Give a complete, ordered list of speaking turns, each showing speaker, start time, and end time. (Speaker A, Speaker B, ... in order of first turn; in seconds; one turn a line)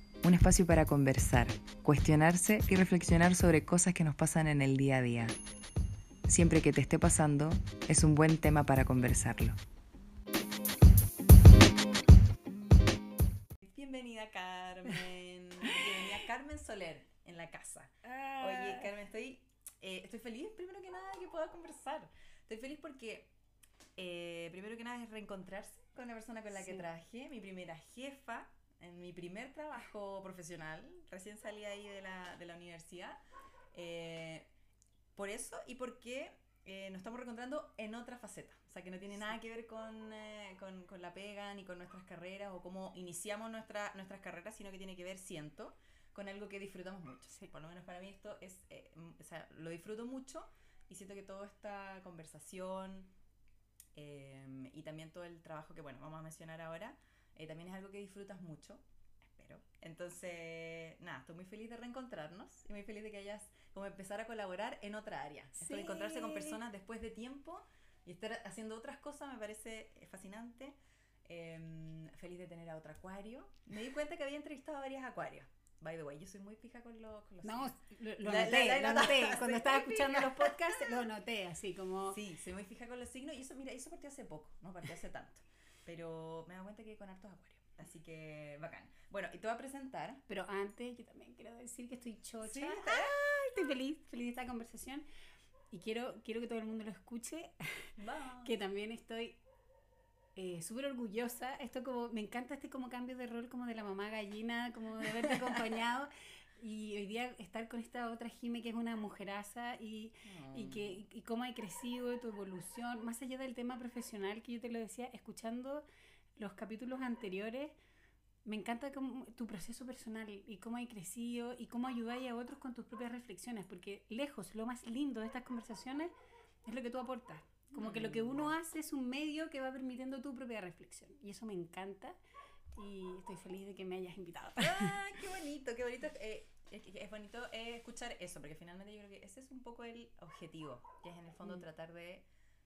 Speaker A: 0.2-5.4
Speaker A: 6.3-9.6
Speaker B: 13.6-23.3
Speaker C: 18.1-18.9
Speaker B: 23.9-33.2
Speaker B: 33.7-34.5
Speaker B: 35.2-53.1
Speaker B: 53.9-81.1
Speaker C: 65.6-66.6
Speaker C: 77.4-82.2
Speaker B: 82.1-90.2
Speaker C: 90.3-95.0
Speaker B: 92.4-93.5
Speaker C: 95.7-99.4
Speaker B: 98.0-98.5
Speaker C: 100.4-115.8
Speaker B: 105.2-105.6
Speaker B: 110.2-111.0
Speaker C: 116.4-117.8
Speaker C: 118.5-126.1
Speaker C: 126.7-132.2
Speaker B: 127.8-128.5
Speaker C: 132.8-135.0
Speaker B: 134.6-142.2